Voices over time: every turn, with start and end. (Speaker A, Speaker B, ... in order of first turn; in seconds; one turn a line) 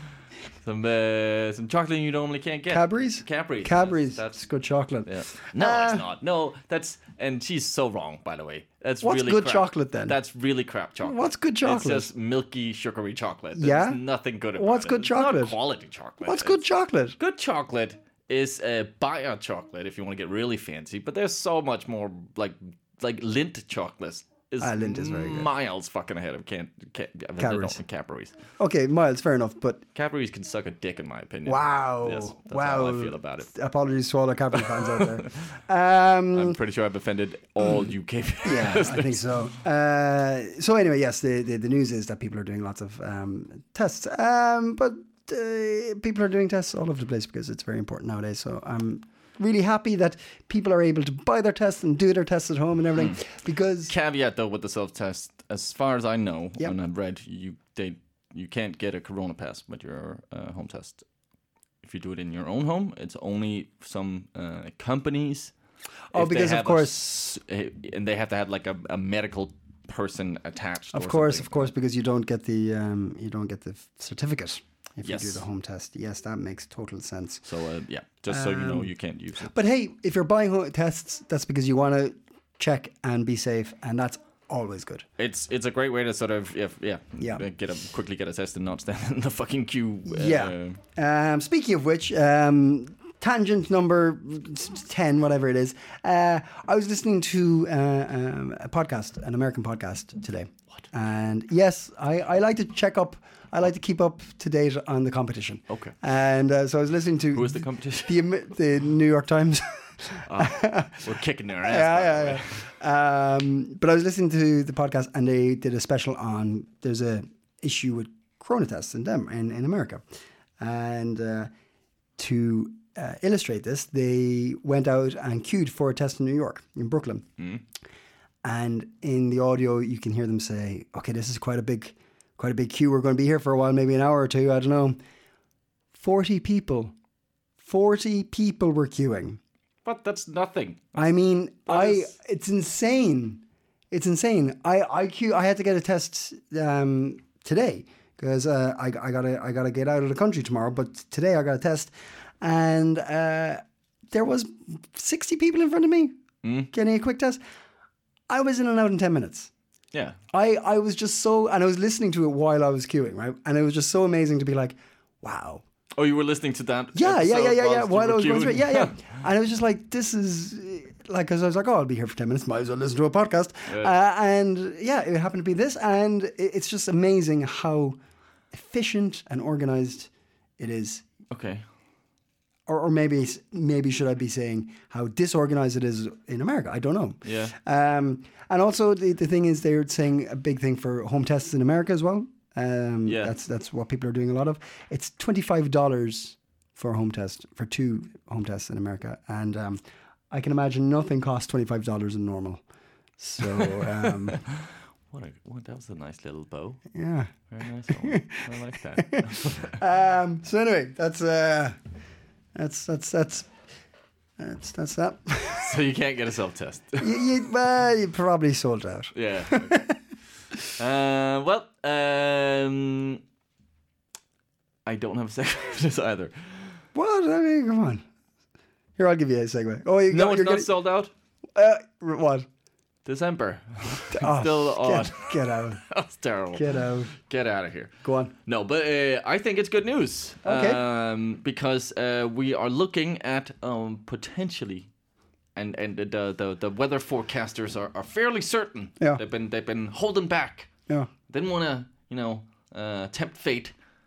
Speaker A: 0.6-4.3
Speaker B: 2.7-6.0
Speaker A: 5.1-16.6
Speaker B: 9.0-10.2
Speaker B: 11.0-12.1
Speaker B: 13.5-14.0
Speaker B: 14.6-15.6
Speaker B: 16.2-17.2
Speaker A: 17.2-28.4
Speaker B: 24.6-25.5
Speaker B: 27.4-27.8
Speaker B: 28.6-29.8
Speaker A: 29.9-33.5
Speaker B: 31.4-36.6
Speaker A: 35.0-35.3
Speaker A: 36.3-39.3
Speaker B: 38.4-53.9
Speaker A: 53.9-61.0
Speaker A: 61.8-65.5
Speaker B: 66.1-67.0
Speaker A: 66.1-71.7
Speaker B: 70.9-77.4
Speaker A: 75.0-75.4
Speaker A: 77.4-79.5
Speaker B: 78.3-78.9
Speaker B: 79.4-85.0
Speaker A: 85.2-90.8
Speaker B: 90.1-111.0
Speaker A: 105.7-105.9
Speaker A: 107.3-108.2
Speaker A: 110.2-112.6
Speaker B: 111.6-120.0
Speaker B: 120.6-121.5
Speaker B: 122.2-127.2
Speaker B: 128.4-135.0
Speaker B: 135.9-136.9
Speaker B: 137.6-139.4
Speaker A: 139.8-140.9
Speaker B: 140.9-156.1
Speaker A: 141.7-142.1
Speaker A: 156.4-156.7
Speaker B: 156.7-157.4
Speaker B: 158.3-159.5
Speaker B: 160.3-165.6
Speaker A: 165.9-169.0
Speaker B: 166.9-178.0
Speaker A: 173.7-173.9
Speaker B: 178.5-181.0
Speaker A: 181.3-181.6
Speaker B: 182.7-202.6
Speaker A: 187.2-187.5
Speaker A: 193.0-193.3
Speaker B: 203.2-204.4
Speaker A: 203.6-206.8
Speaker B: 206.9-207.3
Speaker A: 207.5-209.8
Speaker B: 207.9-208.4
Speaker B: 209.0-211.8
Speaker B: 212.5-213.5
Speaker B: 214.4-215.8
Speaker A: 215.5-217.2
Speaker B: 217.0-220.0
Speaker A: 219.1-219.9
Speaker A: 220.8-223.2
Speaker A: 224.8-226.8
Speaker B: 226.9-228.0
Speaker B: 229.0-230.7
Speaker A: 230.1-231.1
Speaker B: 231.5-232.5
Speaker A: 233.0-237.9
Speaker B: 234.1-235.8
Speaker B: 236.5-237.1
Speaker B: 238.0-238.3
Speaker A: 238.4-244.9
Speaker B: 240.4-240.8
Speaker A: 245.5-250.7
Speaker A: 251.3-253.7